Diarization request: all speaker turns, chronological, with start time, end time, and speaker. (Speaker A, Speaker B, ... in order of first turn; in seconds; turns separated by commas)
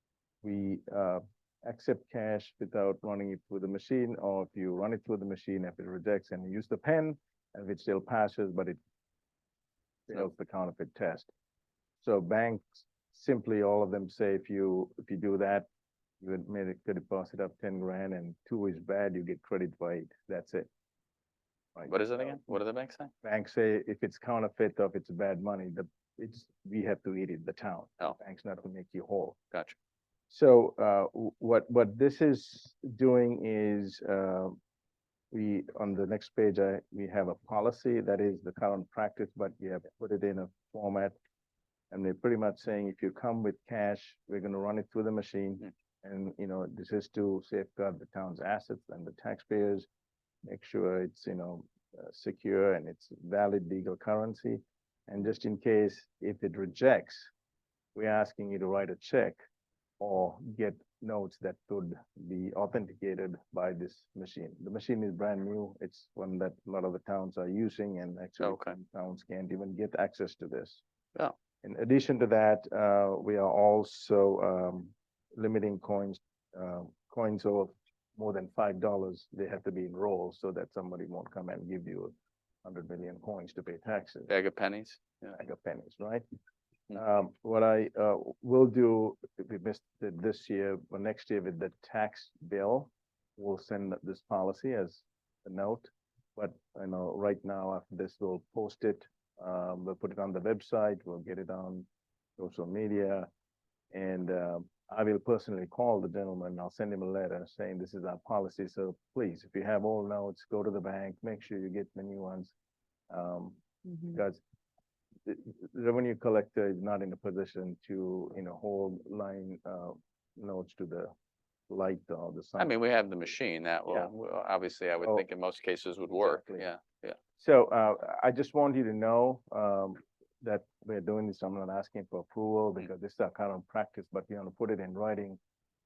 Speaker A: 0.4-8.8, Speaker A: 10.1-11.3, Speaker A: 12.0-15.7, Speaker A: 16.2-20.7, Speaker A: 21.8-22.4, Speaker B: 21.9-23.1, Speaker A: 23.2-29.4, Speaker A: 30.3-34.6, Speaker A: 35.3-41.1, Speaker A: 41.9-49.9, Speaker A: 50.5-57.3, Speaker A: 58.0-59.4, Speaker A: 60.0-70.8, Speaker B: 68.4-68.8, Speaker A: 71.6-82.1, Speaker A: 82.6-84.3, Speaker B: 84.3-85.3, Speaker A: 85.3-86.2, Speaker A: 86.9-101.9, Speaker A: 102.4-103.3, Speaker A: 103.9-112.5, Speaker A: 113.1-114.4, Speaker A: 115.3-121.1, Speaker A: 121.7-122.7, Speaker B: 122.6-127.2, Speaker A: 126.1-126.7, Speaker A: 127.4-135.4